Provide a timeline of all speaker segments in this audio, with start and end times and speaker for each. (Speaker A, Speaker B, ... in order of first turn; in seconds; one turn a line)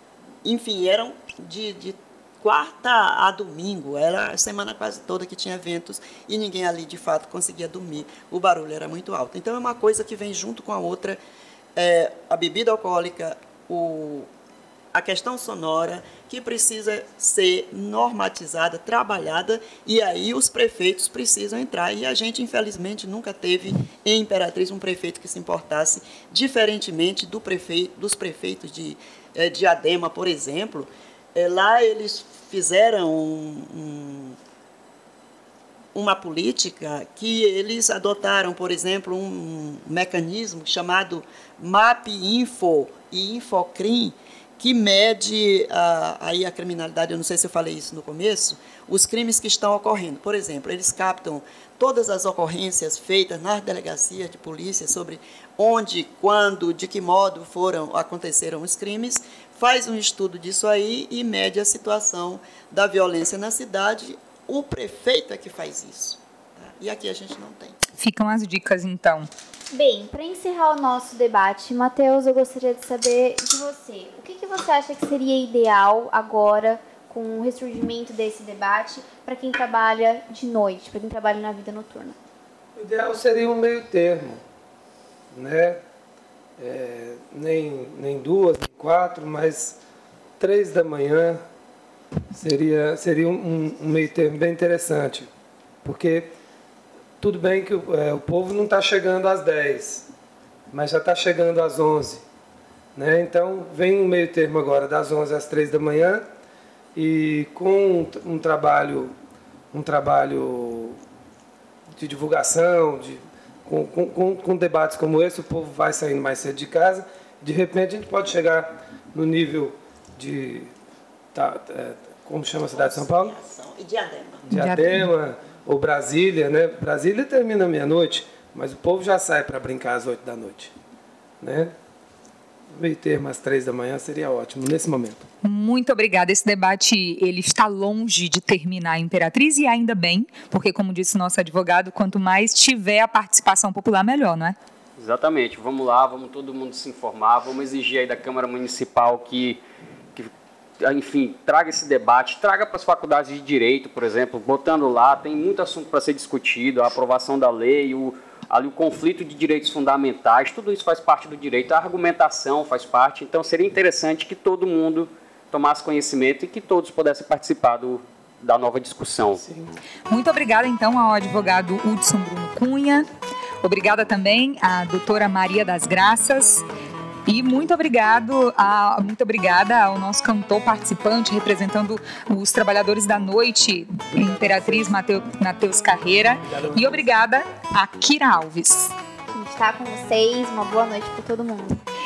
Speaker A: 0.4-11.2
Speaker A: 11.7-14.3
Speaker A: 14.9-34.4
Speaker A: 35.9-67.8
Speaker B: 68.0-69.3
Speaker C: 69.7-82.2
Speaker D: 82.8-84.4
Speaker D: 85.3-85.8
Speaker D: 86.6-89.8
Speaker D: 90.4-91.4
Speaker D: 92.3-95.3
Speaker D: 95.8-96.3
Speaker D: 97.2-100.1
Speaker D: 100.7-102.2
Speaker D: 102.9-106.2
Speaker D: 106.9-109.1
Speaker D: 109.7-111.0
Speaker D: 112.0-120.7
Speaker D: 121.3-123.3
Speaker A: 122.7-124.4
Speaker D: 124.4-130.7
Speaker B: 124.5-125.1
Speaker D: 131.4-131.7
Speaker D: 132.7-135.2
Speaker B: 135.4-144.6
Speaker E: 145.0-149.6
Speaker E: 150.1-169.4
Speaker D: 169.4-169.8
Speaker B: 170.1-173.1
Speaker B: 173.6-176.7
Speaker B: 177.3-188.9
Speaker D: 184.1-184.9
Speaker D: 186.4-187.1
Speaker C: 189.3-191.8